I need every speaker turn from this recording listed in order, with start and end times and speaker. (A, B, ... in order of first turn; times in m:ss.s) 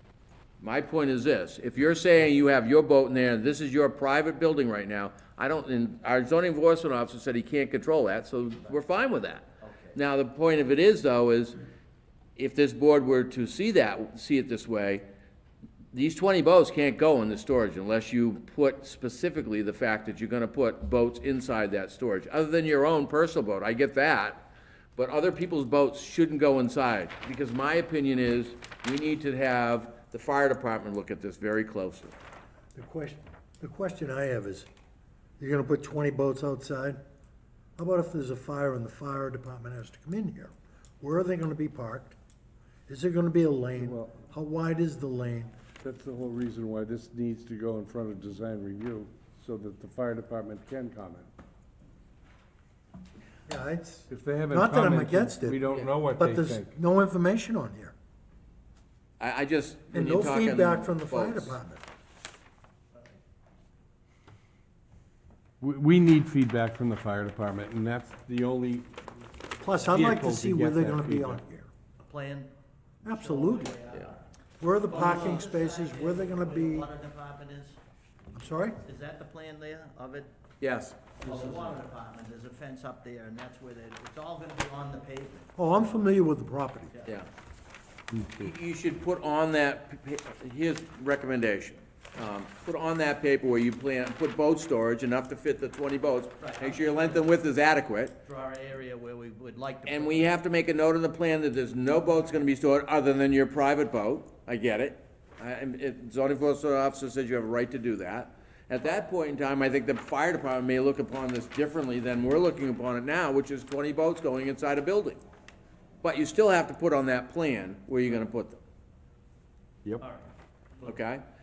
0:00.6-0:11.6 A
0:09.6-0:10.0 B
0:12.4-0:15.1 A
0:15.9-0:32.2 A
0:32.8-0:34.7 C
0:35.4-0:37.0 C
0:37.8-0:42.2 C
0:42.9-0:45.6 C
0:43.8-0:44.2 D
0:45.8-0:51.3 D
0:53.5-0:57.9 C
0:54.1-0:56.7 D
0:59.2-1:01.6 A
0:59.9-1:01.8 C
1:05.6-1:08.9 D
1:09.6-1:11.7 C
1:09.8-1:11.4 D
1:12.0-1:12.5 B
1:13.0-1:13.8 C
1:13.1-1:14.3 B
1:14.6-1:16.9 C
1:14.8-1:17.8 B
1:18.3-1:18.8 C
1:18.8-1:20.3 B
1:20.6-1:21.7 A
1:21.2-1:25.5 B
1:25.6-1:26.9 C
1:26.9-1:27.2 B
1:28.2-1:28.5 D
1:28.4-1:38.2 A
1:36.4-1:37.4 B
1:38.2-1:40.4 B
1:39.8-1:55.2 A
1:56.0-1:58.6 A
2:00.0-2:01.0 B
2:00.8-2:01.2 A